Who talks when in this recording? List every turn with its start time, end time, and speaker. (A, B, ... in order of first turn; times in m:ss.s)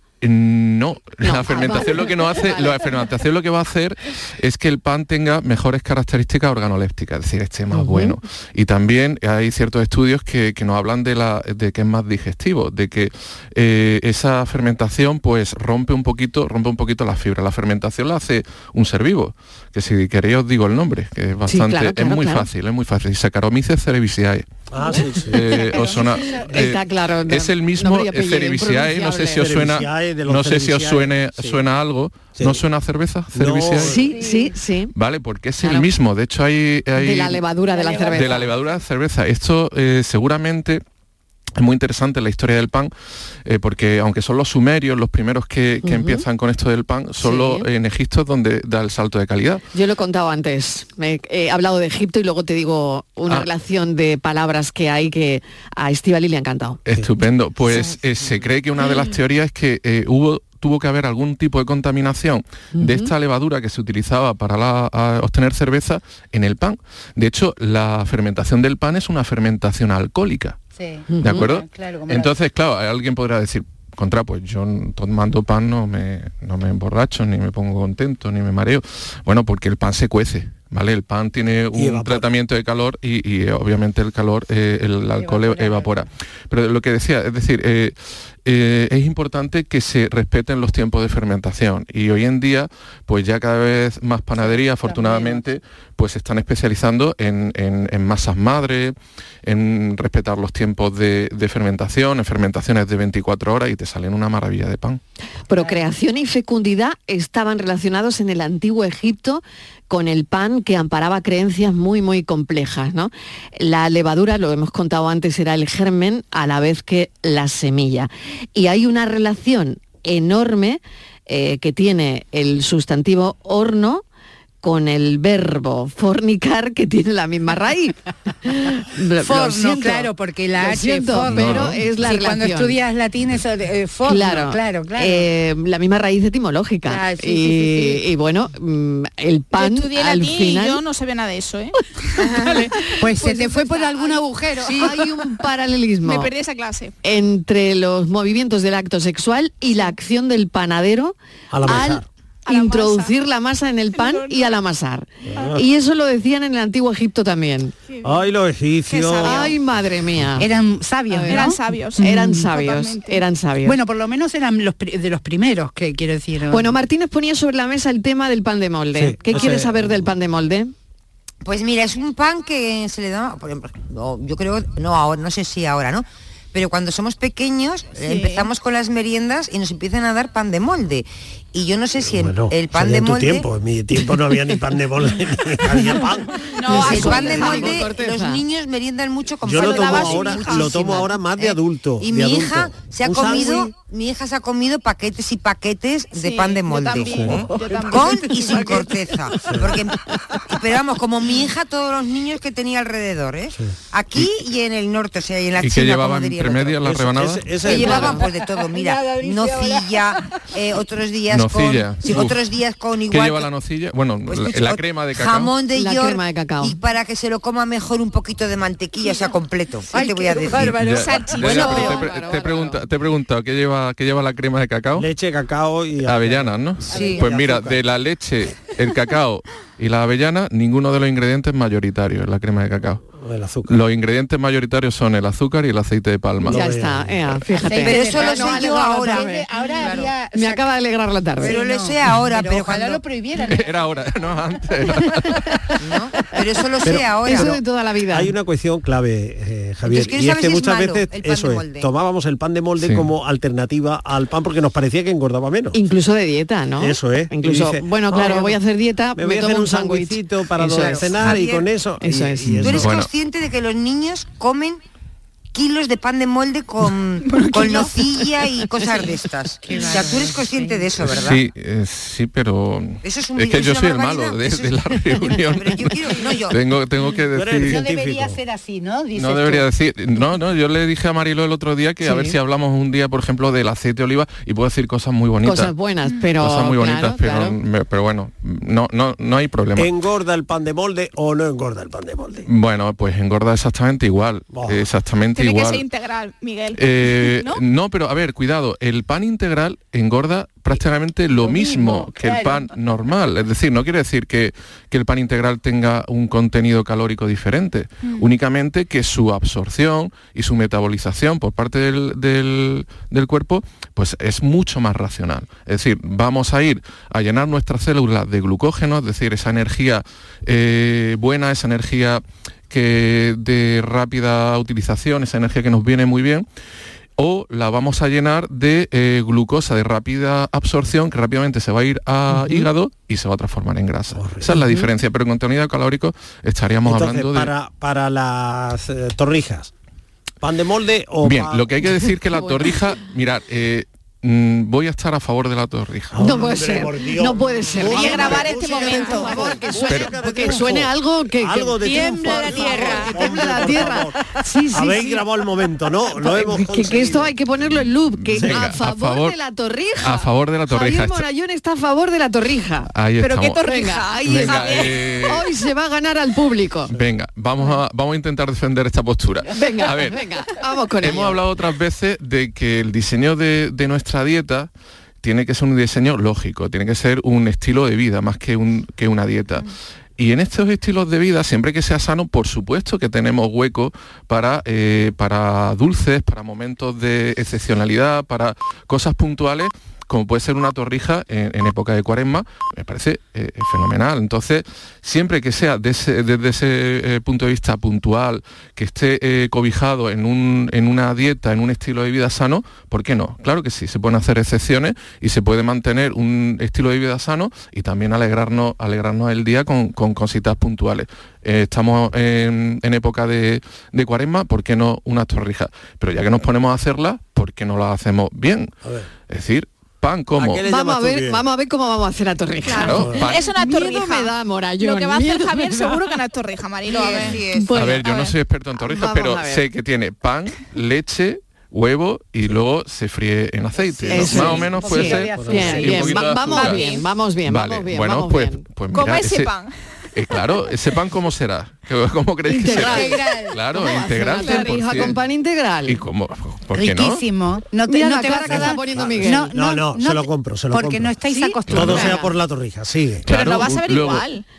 0:00.2-0:24.5 A
0:01.2-0:02.9 B
0:07.7-0:08.2 B
0:21.5-0:22.5 B
0:24.7-0:25.4 C
0:25.3-0:34.0 A
0:25.5-0:25.8 B
0:25.6-0:26.5 D
0:26.5-0:29.5 B
0:29.3-0:31.6 C
0:32.4-0:32.6 C
0:33.3-0:34.1 C
0:33.8-0:34.9 B
0:34.1-0:34.5 D
0:34.9-0:37.4 A
0:35.6-0:35.9 B
0:37.0-0:38.5 B
0:37.7-0:38.5 D
0:38.1-0:40.8 A
0:41.6-0:42.9 A
0:43.4-0:49.6 A
0:45.8-0:46.2 B
0:47.2-0:47.6 B
0:49.7-0:56.8 B
0:56.8-1:10.6 A
1:02.8-1:03.1 B
1:10.8-1:12.3 D
1:11.1-1:11.5 B
1:11.2-1:45.0 A
1:21.7-1:22.2 C
1:25.1-1:26.0 D
1:34.4-1:35.4 D
1:45.5-2:04.0 B
1:45.6-1:45.8 D
2:04.6-2:12.8 B
2:09.2-2:15.3 D
2:11.2-2:11.8 A
2:14.0-2:20.8 B
2:16.8-2:18.0 D
2:19.5-2:22.5 E
2:22.2-2:23.6 B
2:23.0-2:25.1 D
2:23.1-2:24.2 E
2:24.6-2:26.3 B
2:26.0-2:26.9 E
2:27.0-2:37.7 B
2:31.5-2:32.0 C
2:32.4-2:33.1 E
2:33.9-2:34.5 E
2:35.2-2:35.6 C
2:38.0-2:39.6 C
2:38.9-2:39.5 E
2:39.2-2:40.5 B
2:40.4-2:42.5 D
2:41.1-2:43.8 B
2:41.3-2:43.2 E
2:43.6-2:46.8 D
2:46.5-2:50.7 B
2:48.9-2:49.9 C
2:51.4-3:03.5 F
2:58.0-2:58.5 E
3:02.0-3:07.8 C
3:06.5-3:07.7 E
3:06.6-3:08.4 B
3:06.7-3:26.8 F
3:09.4-3:13.7 C
3:09.5-3:10.8 E
3:16.1-3:18.9 E
3:16.9-3:17.5 C
3:19.4-3:19.8 C
3:25.6-3:27.5 A
3:26.8-3:28.2 C
3:27.6-3:28.2 B
3:27.6-3:33.5 F
3:28.9-3:29.8 D
3:31.3-3:32.4 A
3:33.1-3:35.5 A
3:34.3-3:40.8 F
3:35.7-3:36.8 B
3:39.9-3:41.1 D
3:40.5-3:45.1 A
3:40.9-3:42.1 E
3:41.4-3:42.8 B
3:44.9-3:47.8 C
3:46.0-3:53.0 A
3:46.9-3:47.2 F
3:46.9-3:47.2 D
3:53.2-3:53.8 C
3:53.6-3:56.6 A
3:56.4-3:59.5 B
3:56.4-3:57.2 C
3:57.5-4:00.7 D
3:57.8-4:00.1 F
4:00.3-4:01.6 B
4:01.4-4:03.9 D
4:01.4-4:03.0 F
4:03.4-4:05.5 A
4:05.8-4:07.6 F
4:06.8-4:07.6 C
4:07.2-4:08.3 B
4:08.1-4:15.8 C
4:09.8-4:11.9 F
4:12.8-4:13.1 A
4:15.7-4:21.4 B
4:16.8-4:18.6 C
4:19.2-4:22.9 C
4:20.7-4:21.7 F
4:22.0-4:22.8 B
4:22.5-4:23.1 A
4:22.6-4:24.8 F
4:25.5-4:31.4 F
4:27.3-4:27.8 E
4:29.6-4:30.9 D
4:31.0-4:37.8 A
4:33.0-4:36.6 F
4:37.3-4:38.4 C
4:37.6-4:39.7 D
4:39.1-4:45.7 A
4:42.0-4:42.4 B
4:45.4-4:47.6 B
4:46.4-4:49.9 A
4:49.8-4:52.5 C
4:52.4-4:55.8 A
4:54.5-4:54.9 C
4:55.4-4:57.6 E
4:56.7-5:26.4 A
5:01.3-5:02.7 D
5:27.2-5:37.5 A
5:32.3-5:32.7 B
5:34.1-5:34.5 C
5:34.5-5:34.9 B
5:36.8-5:39.7 C
5:40.4-5:41.7 C
5:41.2-5:46.5 A
5:41.8-5:42.8 B
5:46.1-5:54.2 C
5:46.2-5:55.3 B
5:47.8-5:49.5 E
5:49.8-5:50.1 A
5:52.2-5:52.5 D
5:54.7-5:57.3 C
5:56.1-6:02.9 B
5:58.2-5:59.4 A
6:00.0-6:01.2 A
6:02.9-6:05.4 A
6:03.2-6:05.0 E
6:03.6-6:06.9 B
6:06.9-6:10.2 A
6:09.5-6:11.4 B
6:11.0-6:14.7 A
6:15.2-6:58.7 A
6:58.8-6:59.1 C
6:59.3-7:00.6 A
7:00.4-7:01.4 C
7:00.6-7:06.1 B
7:02.6-7:07.5 E
7:02.7-7:03.4 A
7:02.9-7:03.2 C
7:06.9-7:07.9 F
7:07.5-7:09.6 B
7:07.7-7:16.9 A
7:14.0-7:15.7 C
7:14.1-7:18.6 B
7:14.3-7:16.7 D
7:17.4-7:19.5 A
7:18.9-7:19.7 E
7:20.1-7:25.2 A
7:22.5-7:26.0 B
7:22.6-7:23.6 D
7:25.8-7:27.2 A
7:26.7-7:32.3 D
7:27.9-7:29.6 B
7:28.4-7:33.3 C
7:31.3-7:32.3 B
7:33.2-7:34.2 A
7:33.3-7:34.4 E